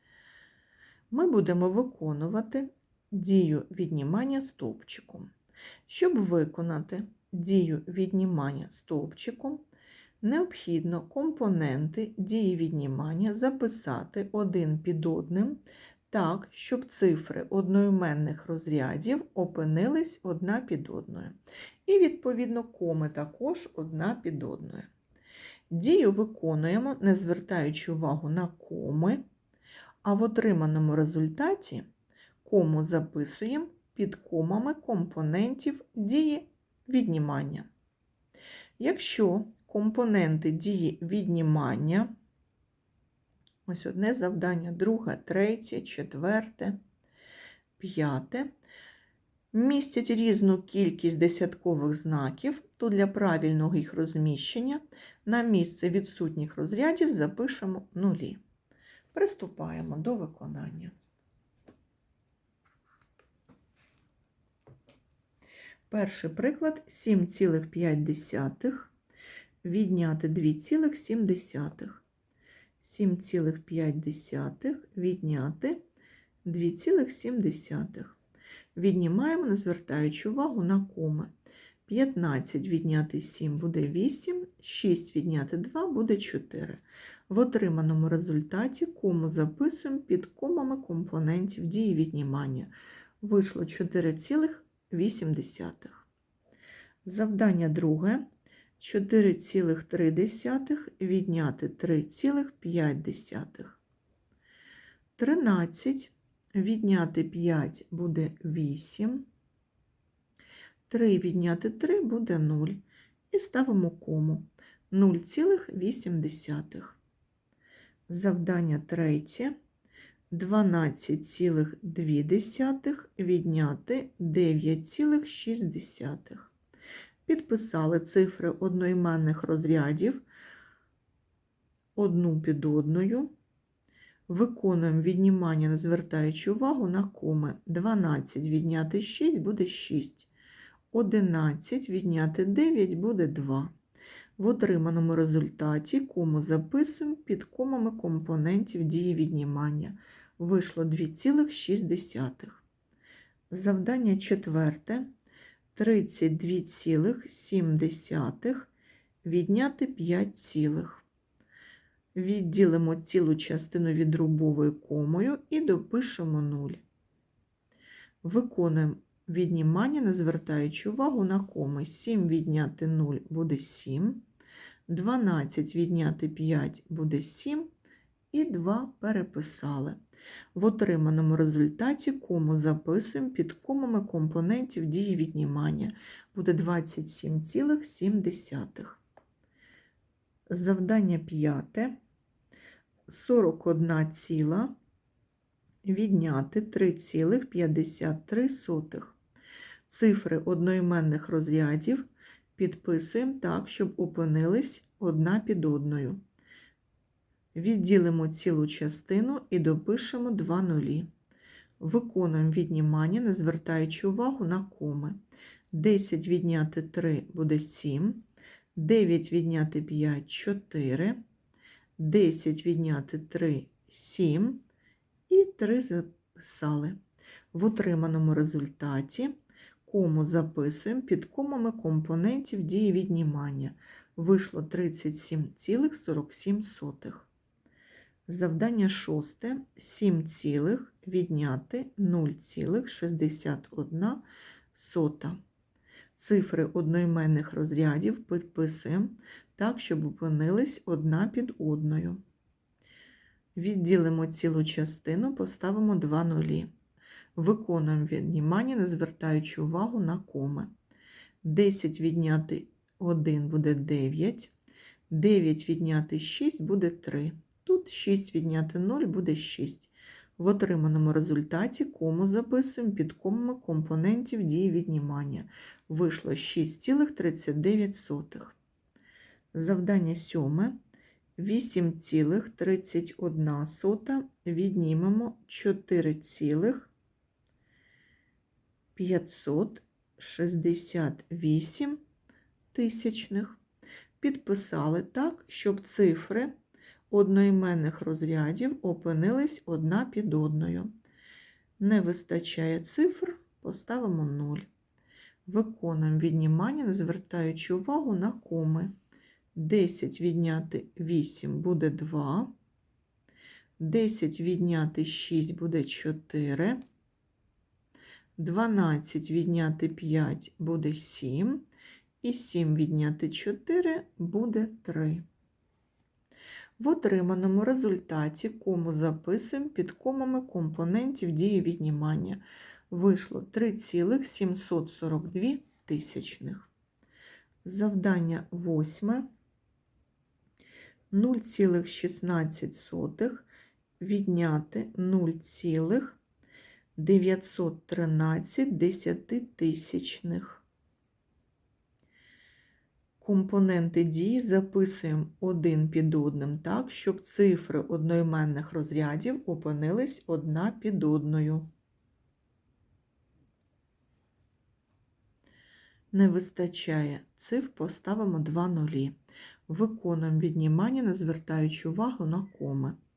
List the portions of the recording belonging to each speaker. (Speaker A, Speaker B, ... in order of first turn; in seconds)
Speaker A: 1.1-5.3, 5.9-9.6, 10.2-24.9, 25.7-29.2, 30.0-31.9, 32.4-37.7, 38.8-42.1, 43.7-46.8, 47.8-48.5, 49.5-58.4, 59.1-60.9, 65.9-68.9, 69.6-72.0, 72.8-75.8, 76.4-78.2, 78.8-81.3, 81.9-96.1, 97.0-98.3, 98.8-103.8, 105.2-109.3, 110.9-117.0, 118.1-119.6, 120.3-126.5, 127.3-130.2, 132.0-133.3, 134.3-140.3, 140.9-143.7, 144.4-152.6, 153.5-155.1, 155.8-158.7, 159.2-161.1, 162.2-166.8, 168.2-174.2, 174.9-177.7, 178.3-180.0, 180.5-189.0, 190.5-192.0, 193.1-194.8, 195.8-199.2, 199.9-206.2, 207.5-211.1, 211.8-215.2, 215.7-218.2, 218.8-221.2, 222.0-224.6, 225.3-227.0, 227.5-229.3, 229.8-237.3, 238.3-245.4, 246.2-252.2, 253.6-256.7, 257.4-260.7, 261.4-264.5, 265.1-278.6, 279.5-280.8, 281.4-286.9, 289.0-292.0, 292.7-293.6, 294.2-296.5, 297.1-300.9, 301.8-304.7, 305.5-308.9, 309.6-312.5, 313.8-316.8, 318.4-321.7, 322.2-325.2, 326.8-336.7, 337.6-339.3, 341.1-343.5, 344.0-346.2, 347.0-350.6, 353.2-361.7, 366.1-369.2, 369.7-373.0